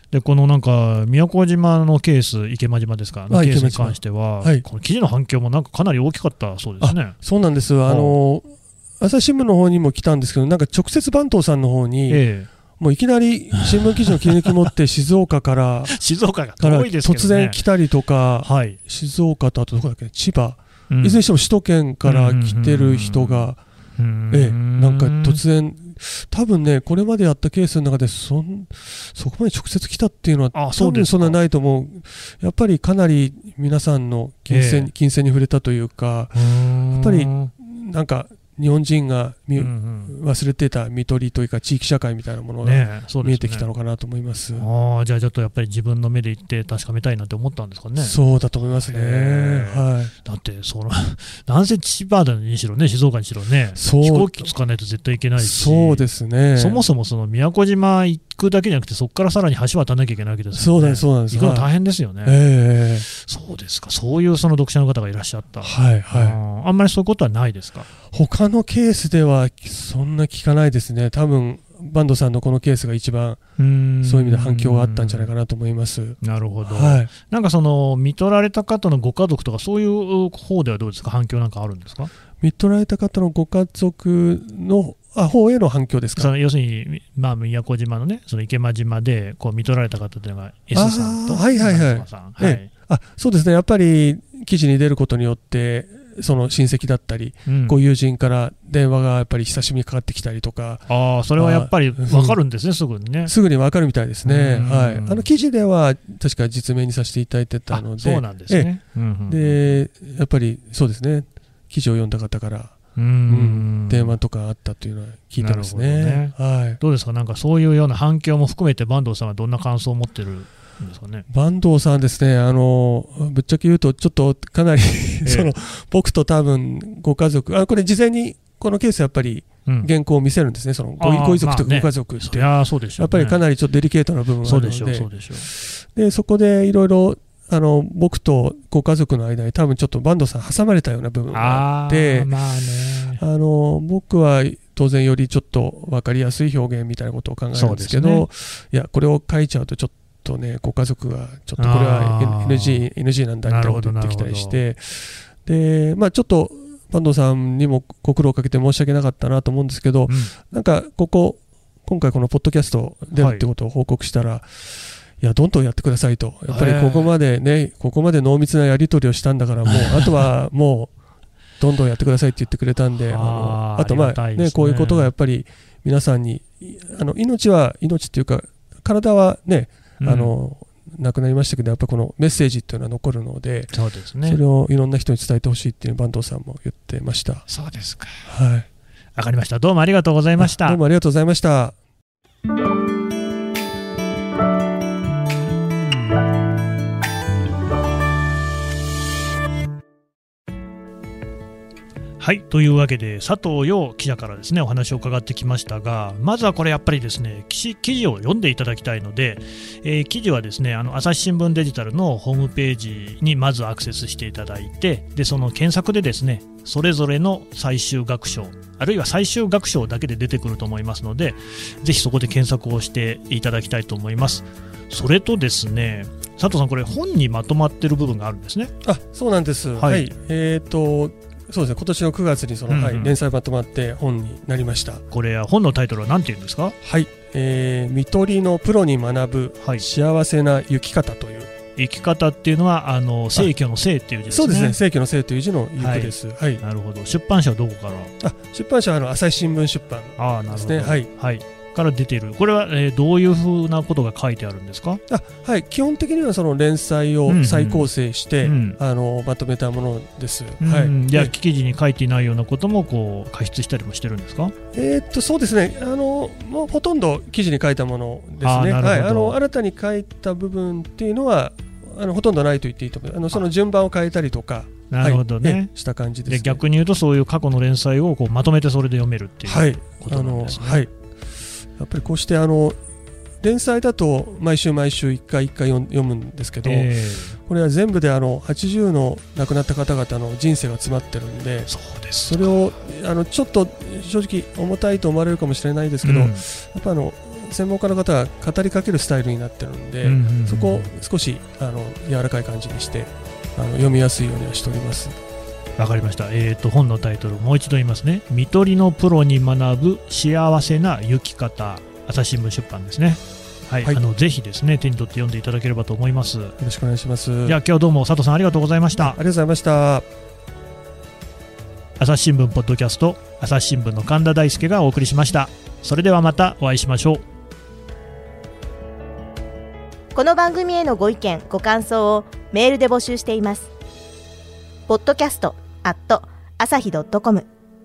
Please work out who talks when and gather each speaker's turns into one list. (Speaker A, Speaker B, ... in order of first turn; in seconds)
Speaker A: 0.1-7.2, 7.9-8.2, 12.1-12.5, 13.6-14.7, 15.9-17.6, 18.4-18.8, 20.9-21.2, 22.1-25.4, 30.5-31.4, 34.5-34.9, 36.3-37.5, 39.6-40.1, 42.6-43.7, 44.6-48.2, 48.9-56.1, 56.6-62.4, 63.1-67.9, 73.6-75.3, 76.2-82.1, 86.2-92.7, 97.5-97.8, 100.9-103.3, 104.2-105.3, 107.7-109.8, 113.0-114.2, 115.4-121.3, 125.2-125.5, 131.0-133.4, 134.4-135.5, 141.3-143.2, 147.5-148.3, 151.6-152.9, 153.5-154.6, 160.1-160.3, 163.2-163.5, 166.5-167.1, 169.7-170.1, 173.1-175.1, 180.0-180.3, 183.7-184.4, 187.5-188.3, 189.2-190.8, 202.2-228.7, 229.8-230.1, 232.7-233.2, 235.1-236.8, 241.8-244.8, 245.8-248.1, 250.2-255.0, 257.3-257.9, 258.4-258.8, 260.6-264.6, 268.4-269.4, 274.9-275.7, 276.3-280.9, 286.6-287.4, 291.7-292.5, 296.0-296.4, 300.0-301.0, 305.8-316.6, 317.4-319.2, 322.0-327.2
Speaker B: 3.3-4.7, 6.8-12.2, 12.8-16.0, 16.6-23.6, 24.3-36.4, 36.9-44.6, 48.0-50.1, 53.8-54.5, 55.4-56.8, 60.5-61.7, 62.2-63.1, 65.6-66.4, 68.1-73.4, 74.0-77.1, 82.4-86.3, 90.7-102.4, 103.3-108.7, 109.3-116.8, 121.3-142.3, 143.2-170.9, 171.6-183.7, 184.2-187.5, 188.2-188.7, 190.4-191.8, 228.8-235.0, 236.8-241.5, 244.3-246.6, 248.2-251.1, 255.1-261.3, 264.7-276.6, 279.5-280.9, 281.8-282.8, 283.4-305.2, 316.6-317.6, 319.0-320.1
Speaker C: 330.1-333.7, 334.9-337.5